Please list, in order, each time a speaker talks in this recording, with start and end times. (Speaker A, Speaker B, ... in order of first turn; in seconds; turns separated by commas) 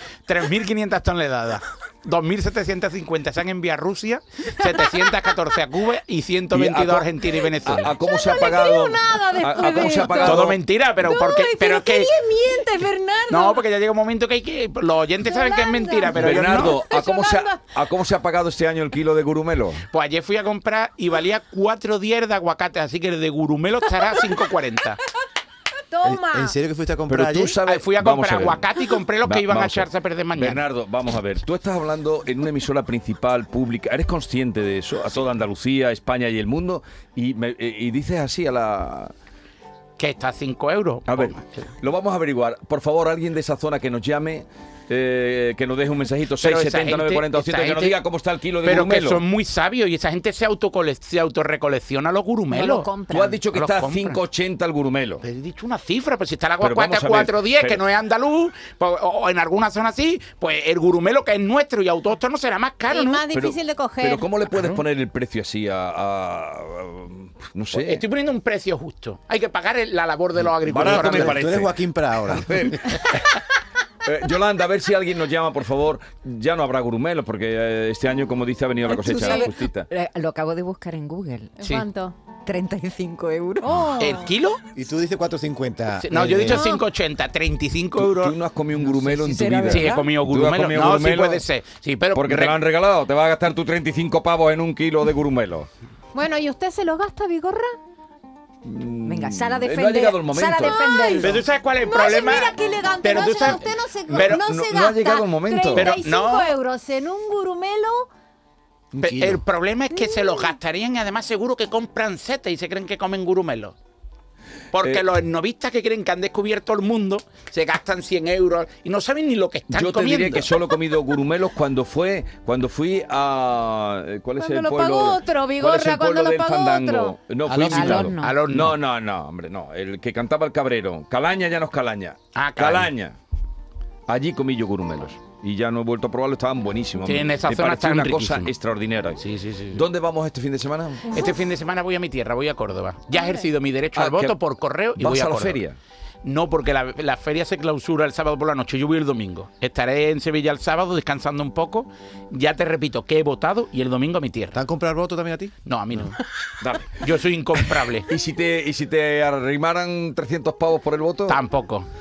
Speaker A: 0.3-8.0, Speaker B: 6.5-10.6, Speaker C: 8.0-13.6, Speaker A: 10.1-12.1, Speaker A: 13.3-16.8, Speaker C: 15.2-17.6, Speaker B: 16.1-19.8, Speaker A: 19.9-25.0, Speaker C: 25.9-26.6, Speaker D: 26.0-27.6, Speaker B: 27.1-28.6, Speaker A: 27.6-30.6, Speaker B: 29.2-39.1, Speaker A: 40.0-41.4, Speaker B: 41.1-49.2, Speaker A: 46.4-48.0, Speaker A: 48.6-52.9, Speaker E: 52.5-53.4, Speaker B: 53.1-55.2, Speaker A: 53.5-54.2, Speaker A: 55.2-63.3, Speaker B: 56.6-57.8, Speaker C: 62.9-64.3, Speaker B: 63.3-68.0, Speaker A: 67.7-71.5, Speaker B: 70.7-72.9, Speaker D: 70.8-72.9, Speaker B: 74.0-79.9, Speaker C: 78.9-79.5, Speaker E: 79.1-79.3, Speaker E: 79.9-81.6, Speaker C: 81.6-82.2, Speaker A: 81.6-81.9, Speaker E: 82.5-83.8, Speaker C: 83.6-84.3, Speaker B: 83.7-84.0, Speaker A: 84.0-84.6, Speaker D: 84.8-86.8, Speaker A: 86.0-88.4, Speaker C: 86.5-86.8, Speaker B: 88.0-91.5, Speaker E: 88.8-90.1, Speaker A: 89.7-92.6, Speaker B: 92.1-95.7, Speaker C: 96.1-97.7, Speaker B: 98.6-101.4, Speaker E: 99.1-101.3, Speaker C: 100.5-108.1, Speaker A: 101.2-104.4, Speaker B: 104.3-106.0, Speaker A: 105.7-106.5, Speaker D: 108.9-109.4, Speaker A: 109.0-113.8, Speaker C: 109.9-110.5, Speaker A: 114.7-120.5, Speaker B: 119.7-133.2, Speaker C: 124.4-127.2, Speaker D: 127.5-128.2, Speaker E: 127.7-128.3, Speaker A: 128.2-128.8, Speaker A: 132.3-132.9, Speaker B: 134.1-141.2, Speaker A: 137.0-138.5, Speaker A: 139.2-139.8, Speaker A: 141.1-145.6, Speaker C: 143.1-143.5, Speaker B: 143.9-144.4, Speaker B: 145.0-145.8, Speaker A: 146.2-154.6, Speaker D: 154.5-156.1, Speaker A: 155.7-156.2, Speaker B: 156.6-161.4, Speaker A: 157.0-158.1, Speaker A: 161.3-161.9